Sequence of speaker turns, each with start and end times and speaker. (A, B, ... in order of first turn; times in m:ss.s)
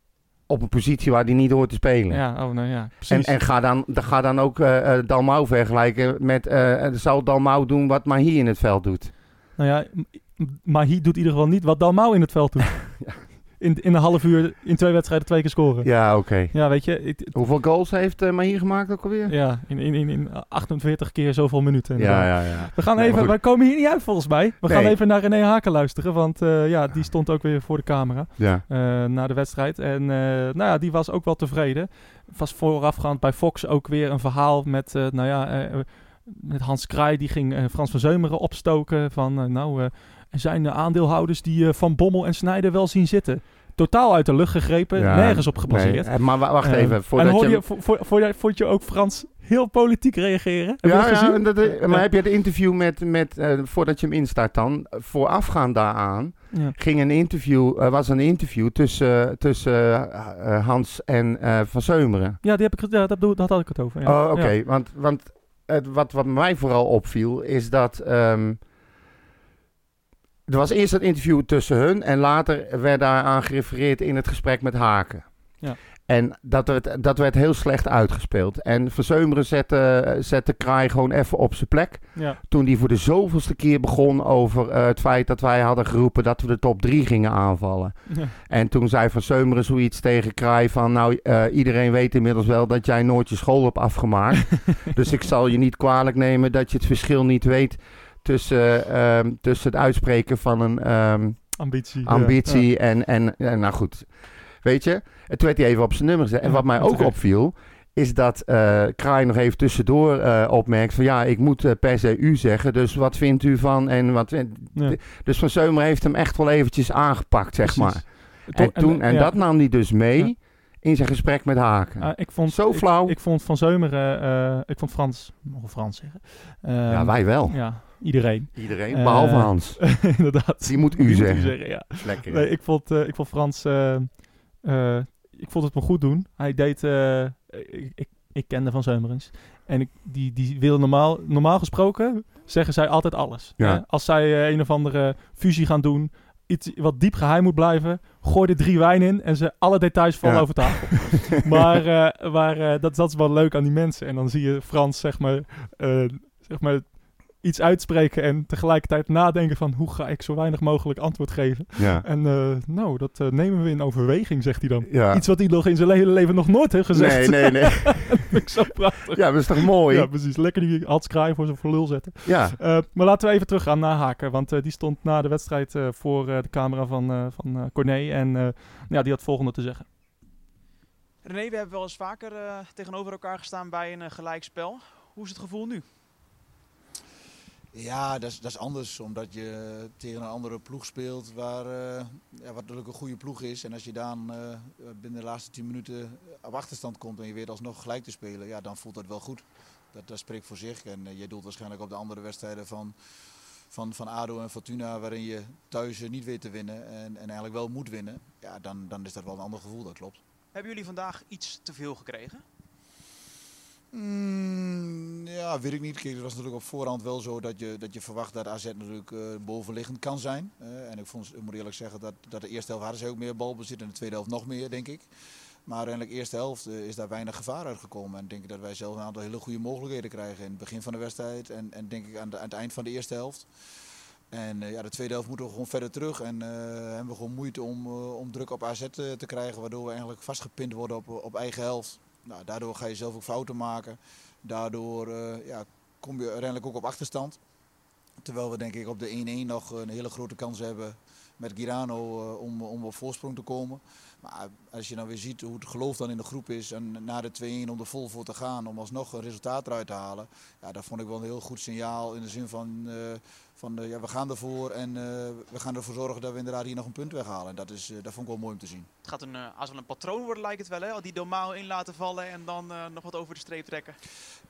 0:00.5-0:02.3 A
0:02.1-0:03.4 B
0:03.1-0:09.1 A
0:09.6-0:12.9 B
0:13.6-0:15.9 B
0:15.8-0:16.6 A
0:16.5-0:17.3 B
0:17.3-0:19.4 A
0:19.3-0:52.1 B
0:22.0-0:23.4 A
0:24.6-0:25.0 A
0:28.4-0:28.6 A
0:45.0-0:47.6 A
0:50.8-1:02.4 A
1:02.4-1:04.5 B
1:04.0-1:08.6 A
1:10.5-1:15.3 A
1:16.1-1:44.1 A
1:41.6-1:42.6 B
1:44.6-2:03.2 A
1:46.5-1:47.1 B
1:57.6-1:59.4 B
2:02.0-2:59.9 B
2:06.9-2:10.1 A
2:10.6-2:12.5 A
2:30.2-2:31.4 A
2:41.8-2:42.1 A
2:44.9-2:45.2 A
2:46.9-2:48.4 A
2:49.1-2:50.1 A
2:52.2-2:52.6 A
3:01.2-3:05.9 C
3:07.7-3:22.9 D
3:23.7-3:30.2 D
3:30.5-3:32.4 C
3:33.9-3:45.1 D
3:45.7-3:53.5 D
3:54.3-4:07.4 D
4:08.2-4:28.9 D
4:29.0-4:34.0 C